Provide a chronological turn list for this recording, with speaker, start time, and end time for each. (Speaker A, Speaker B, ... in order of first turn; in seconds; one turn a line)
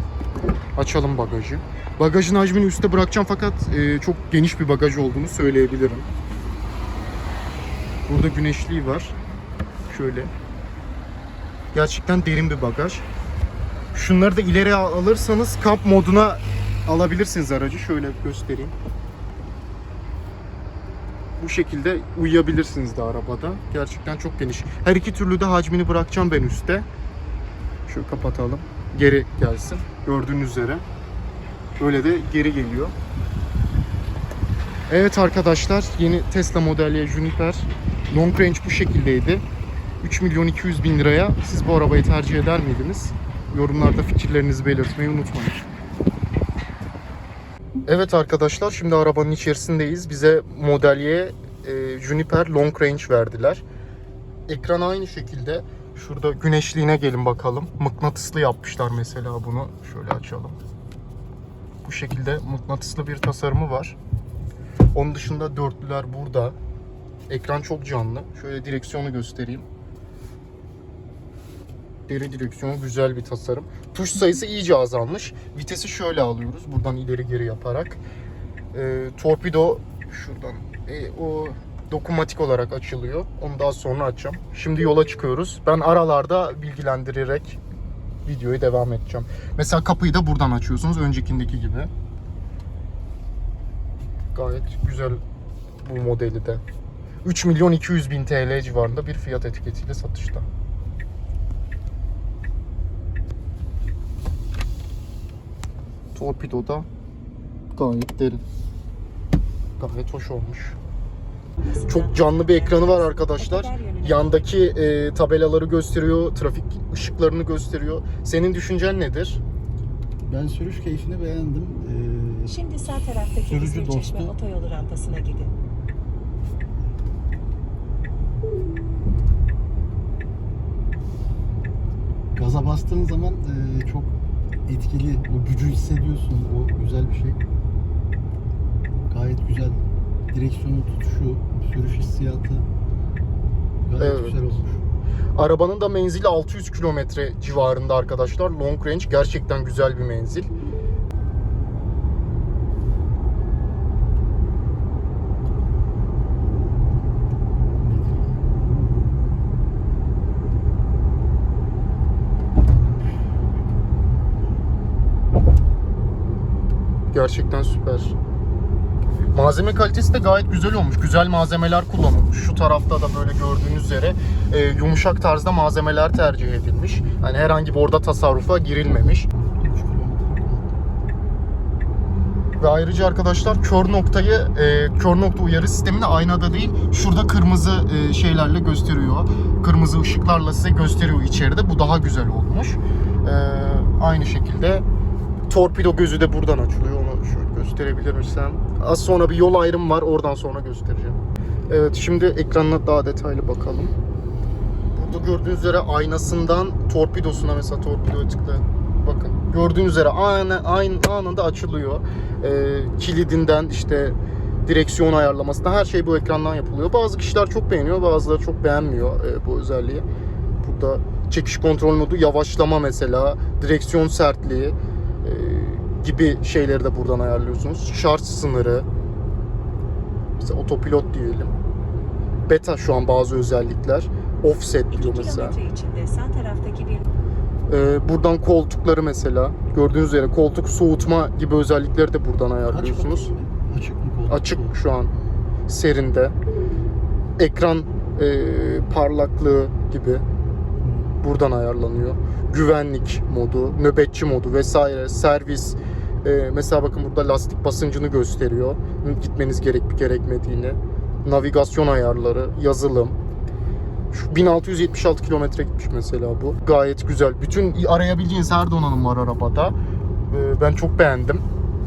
Speaker A: 0.8-6.0
Speaker A: 8.1-9.2
Speaker A: 9.9-10.3
Speaker A: 11.7-13.0
Speaker A: 13.9-18.7
Speaker A: 21.4-26.9
Speaker A: 27.9-30.8
Speaker A: 31.8-32.9
Speaker A: 34.9-39.4
Speaker A: 40.0-45.7
Speaker A: 47.9-53.6
Speaker A: 54.5-60.6
Speaker A: 61.8-64.0
Speaker A: 64.9-66.5
Speaker A: 67.3-69.6
Speaker A: 72.1-78.0
Speaker A: 78.7-87.6
Speaker A: 88.2-91.9
Speaker A: 94.3-95.2
Speaker A: 95.8-96.6
Speaker A: 97.2-100.5
Speaker A: 106.1-106.8
Speaker A: 107.7-108.4
Speaker A: 109.8-110.8
Speaker B: 111.7-114.5
Speaker A: 111.9-119.4
Speaker C: 120.2-122.6
Speaker B: 122.5-125.5
Speaker C: 123.5-124.3
Speaker C: 132.3-134.1
Speaker C: 134.7-137.4
Speaker C: 139.1-142.7
Speaker C: 143.8-144.8
Speaker A: 144.0-144.4
Speaker A: 145.3-150.5
Speaker C: 157.7-159.0
Speaker A: 167.1-168.1
Speaker A: 169.3-179.2
Speaker C: 179.3-180.8
Speaker A: 182.6-194.8
Speaker A: 195.5-203.9
Speaker A: 204.9-220.1
Speaker A: 220.6-228.9
Speaker A: 230.4-231.5
Speaker A: 232.5-235.6
Speaker B: 234.9-237.1
Speaker A: 237.7-243.3
Speaker C: 242.7-245.3
Speaker A: 244.3-245.1
Speaker A: 245.7-246.3
Speaker A: 247.4-250.2
Speaker C: 250.8-251.2
Speaker A: 251.2-263.2
Speaker A: 264.1-269.8
Speaker A: 270.3-271.4